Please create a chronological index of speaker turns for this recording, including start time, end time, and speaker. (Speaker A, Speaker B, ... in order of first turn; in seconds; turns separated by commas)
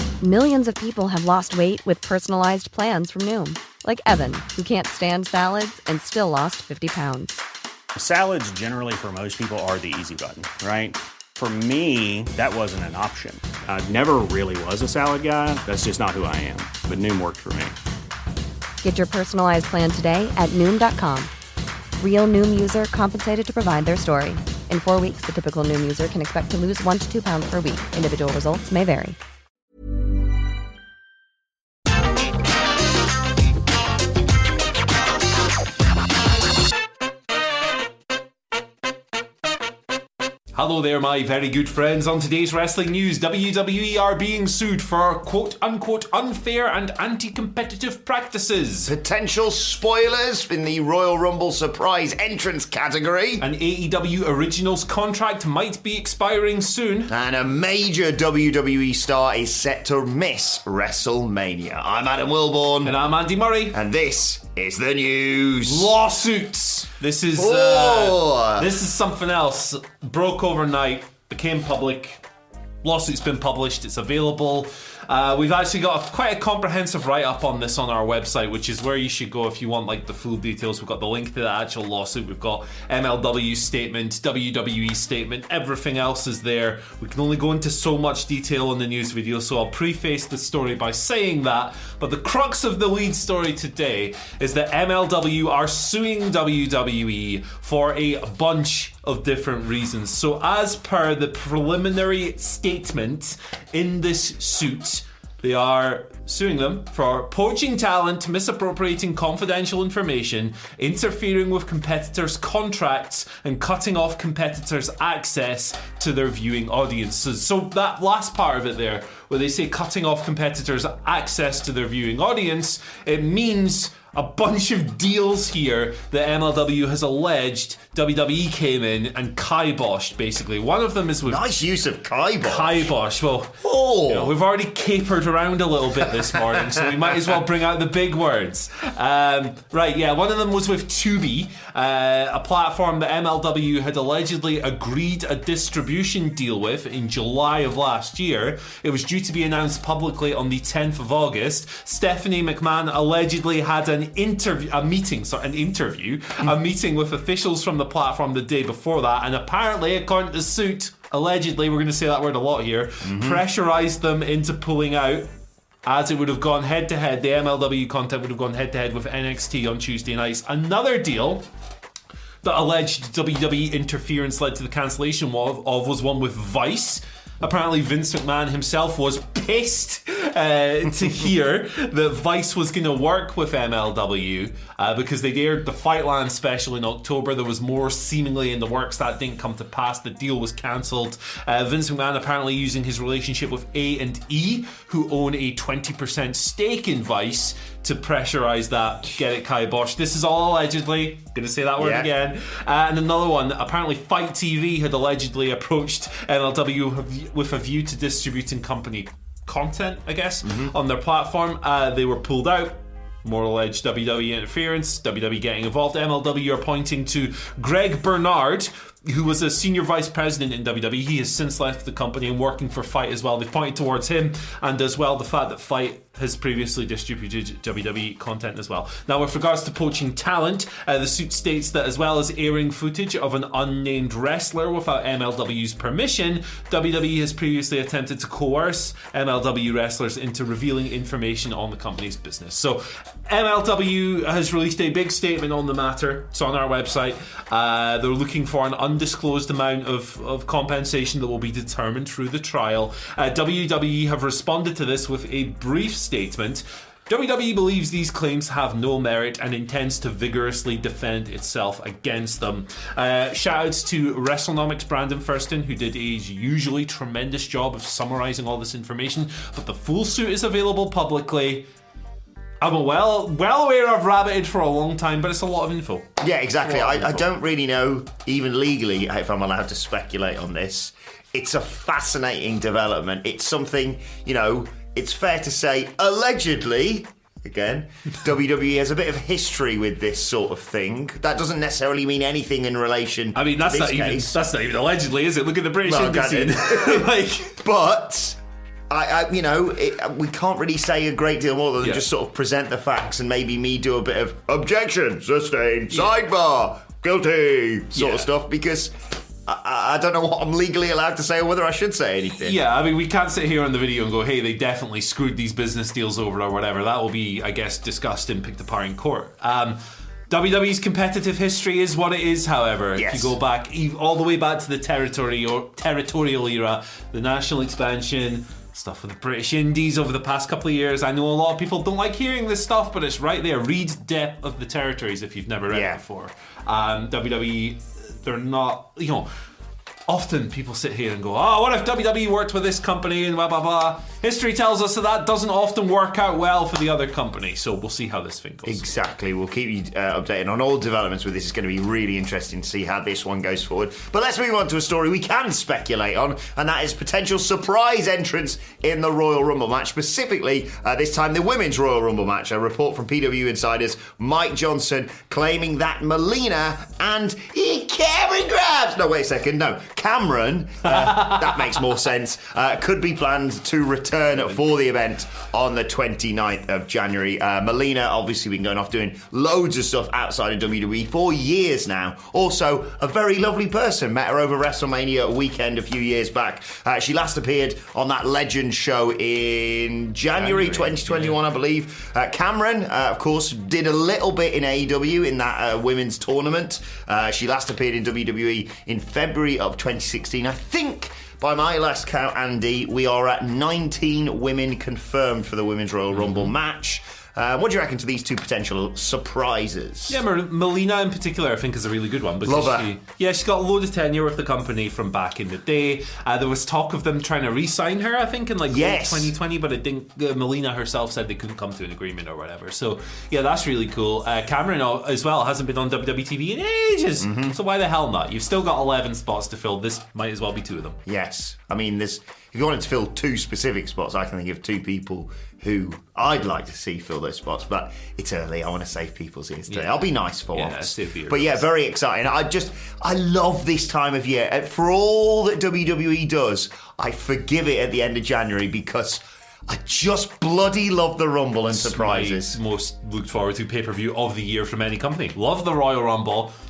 Speaker A: 0.2-7.3, Speaker B: 8.0-17.8, Speaker A: 18.8-21.3, Speaker A: 22.0-29.2, Speaker C: 40.5-48.9, Speaker D: 48.9-53.5, Speaker C: 53.4-57.1, Speaker D: 57.1-63.0, Speaker C: 62.8-63.8, Speaker D: 63.7-65.9, Speaker C: 65.7-72.2, Speaker D: 67.4-68.7, Speaker C: 72.8-131.4, Speaker D: 131.2-132.9, Speaker C: 132.4-165.3, Speaker D: 133.6-134.3, Speaker D: 136.3-137.2, Speaker D: 163.0-163.4, Speaker C: 165.9-171.5, Speaker C: 172.4-271.7, Speaker D: 201.8-202.1, Speaker D: 210.4-210.7, Speaker C: 272.6-276.1, Speaker D: 276.2-294.3, Speaker C: 276.6-277.3, Speaker C: 293.4-297.6, Speaker D: 295.9-298.4, Speaker D: 298.9-308.9, Speaker C: 307.9-308.3, Speaker D: 309.5-312.6, Speaker C: 312.4-319.8, Speaker C: 320.3-339.3, Speaker D: 323.0-323.4, Speaker D: 335.7-336.0, Speaker C: 340.1-348.9, Speaker D: 348.7-410.2, Speaker C: 370.9-371.6, Speaker C: 390.3-391.4, Speaker C: 406.1-406.5, Speaker C: 410.1-431.0, Speaker D: 412.4-412.9, Speaker D: 418.7-419.3, Speaker D: 427.2-427.6, Speaker D: 431.1-452.6, Speaker C: 439.7-441.6, Speaker C: 451.7-456.5